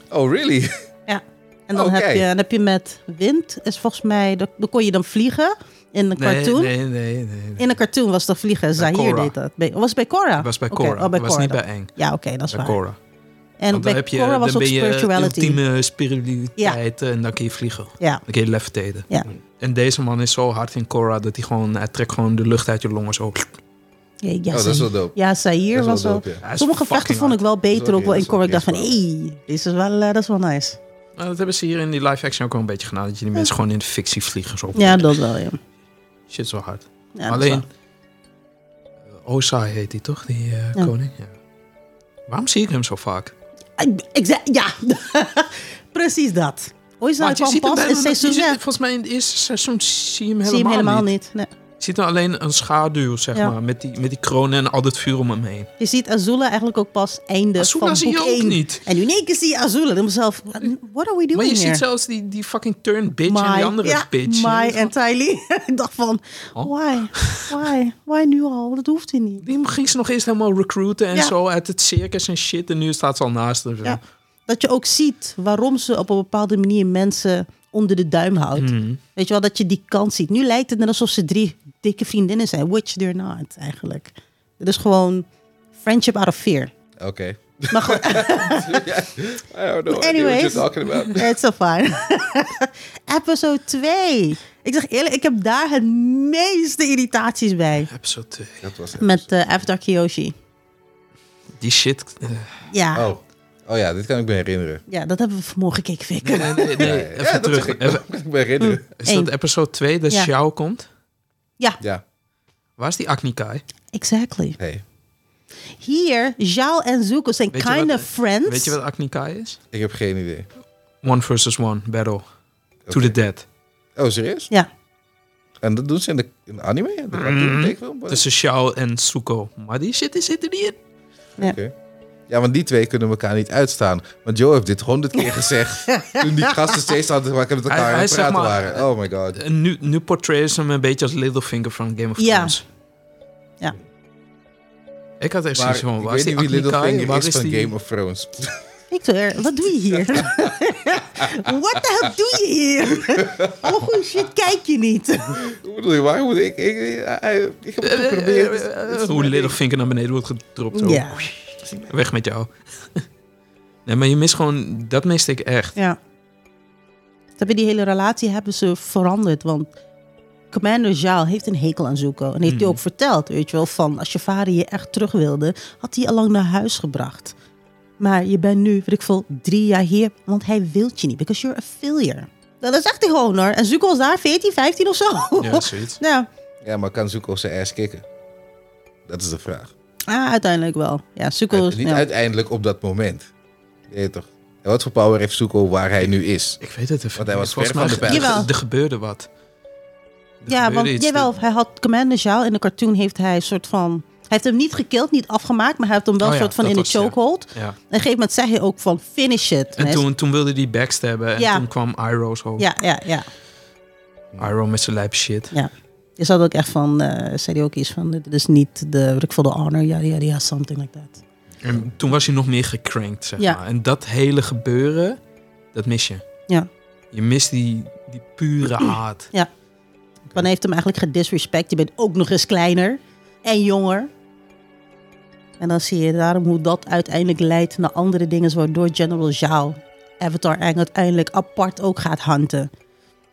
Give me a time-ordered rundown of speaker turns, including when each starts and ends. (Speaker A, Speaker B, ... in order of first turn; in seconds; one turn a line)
Speaker A: 0.1-0.7
Speaker B: 1.1-6.7
Speaker A: 1.7-2.3
Speaker C: 6.2-7.7
Speaker B: 7.6-12.8
Speaker C: 8.8-9.3
Speaker C: 10.4-11.9
Speaker C: 12.5-13.0
Speaker B: 13.6-15.6
Speaker C: 13.7-19.1
Speaker C: 19.6-23.5
Speaker B: 24.2-30.8
Speaker A: 24.5-25.2
Speaker A: 25.7-26.4
Speaker C: 26.4-27.4
Speaker A: 27.7-28.9
Speaker C: 31.2-35.2
Speaker B: 34.8-35.6
Speaker C: 36.3-37.6
Speaker B: 37.2-37.6
Speaker C: 39.1-41.4
Speaker C: 42.3-43.3
Speaker B: 43.8-48.6
Speaker C: 47.2-51.1
Speaker B: 50.5-51.5
Speaker C: 51.8-55.7
Speaker B: 55.8-61.8
Speaker C: 57.6-58.8
Speaker C: 61.3-64.9
Speaker B: 63.3-69.4
Speaker C: 66.5-67.5
Speaker C: 69.4-74.0
Speaker B: 73.8-85.2
Speaker C: 78.6-79.0
Speaker B: 85.8-86.7
Speaker A: 87.0-91.3
Speaker B: 87.7-88.9
Speaker B: 89.9-97.9
Speaker C: 97.9-98.6
Speaker A: 98.6-99.5
Speaker B: 99.0-100.3
Speaker C: 101.6-102.5
Speaker B: 102.7-103.1
Speaker A: 102.9-104.8
Speaker B: 104.9-106.9
Speaker C: 106.2-108.0
Speaker A: 106.8-108.8
Speaker B: 108.6-109.3
Speaker C: 109.0-110.9
Speaker C: 112.8-113.6
Speaker B: 113.9-114.6
Speaker A: 114.6-114.8
Speaker B: 115.8-118.8
Speaker C: 117.5-119.6
Speaker A: 119.7-120.5
Speaker C: 121.0-122.2
Speaker A: 122.9-123.2
Speaker C: 122.9-123.5
Speaker A: 124.0-124.5
Speaker A: 125.6-128.2
Speaker C: 127.1-130.8
Speaker A: 131.4-131.7
Speaker A: 132.3-139.4
Speaker B: 135.9-136.8
Speaker C: 137.7-142.6
Speaker B: 142.2-142.6
Speaker C: 145.2-147.7
Speaker A: 145.6-148.7
Speaker B: 148.9-155.4
Speaker A: 149.9-150.6
Speaker A: 151.2-152.4
Speaker A: 152.9-153.9
Speaker A: 155.4-159.6
Speaker C: 157.8-163.0
Speaker B: 160.8-161.2
Speaker C: 163.9-165.8
Speaker B: 167.4-169.7
Speaker B: 170.5-177.3
Speaker C: 172.4-172.8
Speaker B: 178.0-186.3
Speaker C: 185.4-186.0
Speaker A: 186.6-188.1
Speaker A: 189.1-189.7
Speaker B: 190.1-192.0
Speaker A: 191.5-193.3
Speaker A: 193.9-196.6
Speaker C: 196.6-199.3
Speaker A: 197.2-198.5
Speaker B: 197.9-198.5
Speaker C: 200.4-201.3
Speaker B: 200.5-210.0
Speaker C: 206.2-207.8
Speaker C: 209.8-212.7
Speaker B: 211.4-211.7
Speaker B: 212.6-213.3
Speaker C: 214.4-215.5
Speaker B: 215.5-221.2
Speaker C: 221.6-225.2
Speaker C: 225.7-226.2
Speaker C: 227.1-229.3
Speaker B: 230.3-234.1
Speaker B: 235.6-242.7